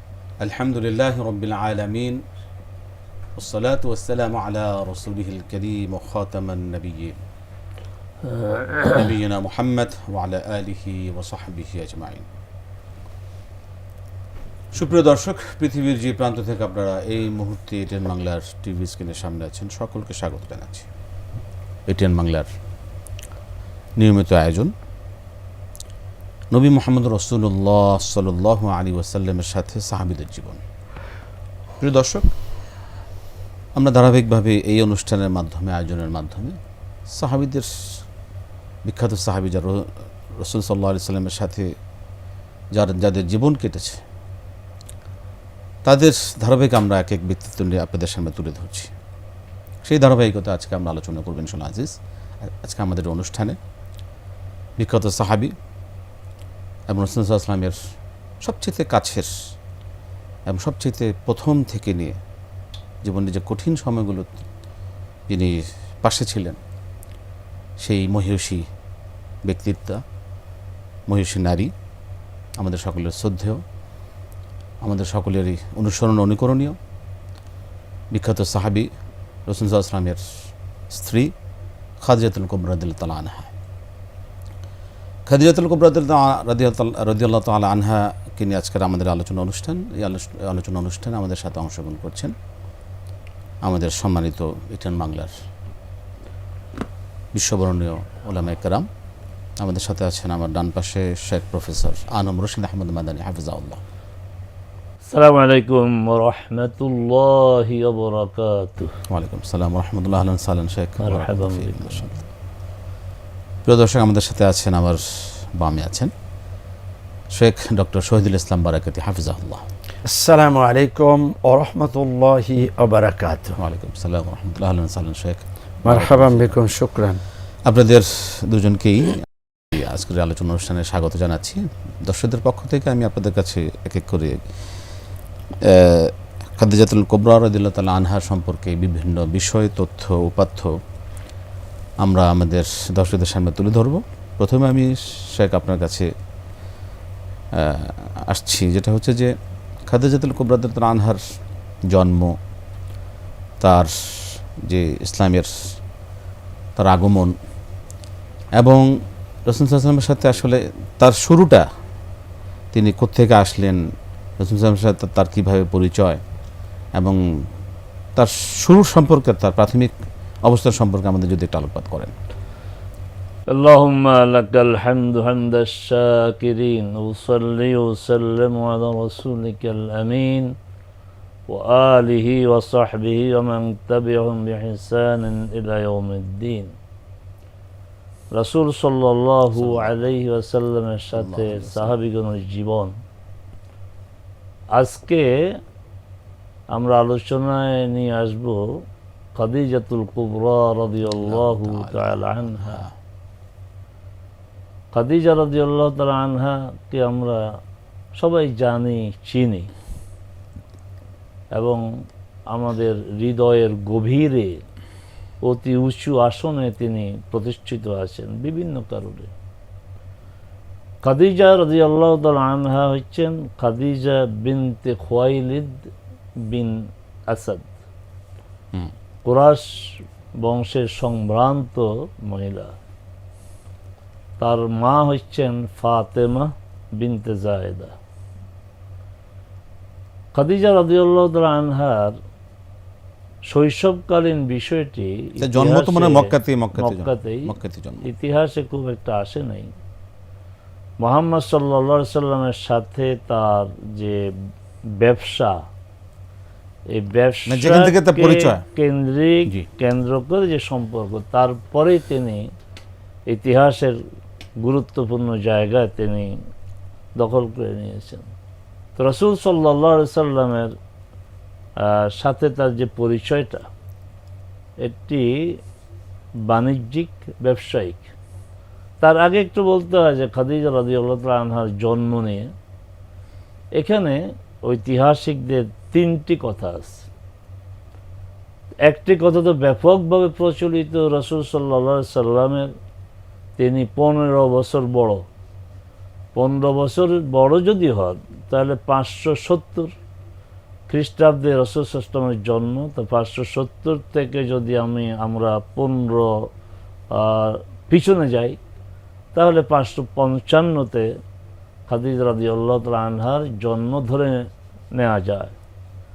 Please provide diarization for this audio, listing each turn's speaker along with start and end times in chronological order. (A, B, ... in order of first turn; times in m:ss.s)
0:00.4-0:02.2 A
0:03.4-0:07.2 A
0:08.8-0:12.2 A
0:14.7-0:20.9 A
0:21.9-0:22.5 A
0:24.0-0:24.7 A
0:26.5-0:30.6 A
0:31.8-0:32.3 A
0:33.8-0:36.6 A
0:37.1-0:38.0 A
0:38.8-0:39.9 A
0:40.4-0:41.7 A
0:42.7-0:44.0 A
0:45.8-0:48.9 A
0:49.8-0:53.6 A
0:54.8-0:55.5 A
0:56.9-0:57.8 A
0:58.4-0:59.3 A
1:00.5-1:02.2 A
1:03.0-1:04.3 A
1:05.3-1:06.6 A
1:07.8-1:08.6 A
1:09.4-1:10.0 A
1:11.1-1:11.7 A
1:12.6-1:13.6 A
1:14.8-1:16.8 A
1:18.1-1:18.9 A
1:19.5-1:20.2 A
1:20.9-1:21.3 A
1:22.0-1:23.5 A
1:25.3-1:32.4 A
1:33.6-1:35.3 A
1:37.3-1:38.9 A
1:39.6-1:43.8 A
1:45.1-1:48.9 B
1:49.1-1:52.2 A
1:51.0-1:52.1 B
1:53.7-1:56.1 A
1:57.3-1:59.6 A
2:00.0-2:03.6 C
2:03.6-2:06.6 A
2:05.8-2:07.2 C
2:07.7-2:14.4 A
2:15.6-2:20.7 A
2:22.0-2:26.1 A
2:27.6-2:29.3 A
2:29.9-2:31.2 A
2:31.9-2:32.3 A
2:33.6-2:35.5 A
2:36.8-2:37.3 A
2:38.6-2:38.9 A
2:39.5-2:41.6 A
2:42.7-2:43.8 A
2:44.4-2:46.2 A
2:48.2-2:49.9 A
2:50.4-2:52.1 A
2:53.5-3:00.5 B
3:01.5-3:06.8 B
3:08.3-3:13.0 B
3:09.6-3:10.0 A
3:11.2-3:11.9 A
3:14.7-3:15.6 B
3:16.7-3:18.8 B
3:19.4-3:22.8 B
3:21.1-3:22.9 A
3:24.9-3:27.6 B
3:28.2-3:29.7 B
3:31.5-3:31.9 B
3:32.5-3:34.6 B
3:35.4-3:39.3 B
3:41.0-3:45.9 B
3:46.5-3:47.7 B
3:49.2-3:52.8 B
3:54.4-3:58.0 B
4:00.3-4:02.2 B
4:03.5-4:09.7 B
4:05.4-4:08.1 A
4:11.0-4:14.4 B
4:14.9-4:15.7 B
4:16.9-4:22.5 B
4:17.5-4:18.6 A
4:23.3-4:24.0 B
4:24.6-4:26.4 B
4:27.2-4:28.3 B
4:29.0-4:30.8 B
4:31.8-4:33.7 B
4:34.8-4:35.6 B
4:36.5-4:38.1 B
4:39.0-4:42.5 B
4:43.7-4:47.0 B
4:48.8-4:52.7 B
4:53.6-4:55.3 B
4:56.4-5:00.0 B
5:00.9-5:06.5 B
5:07.1-5:08.6 B
5:09.3-5:11.1 B
5:11.9-5:15.5 B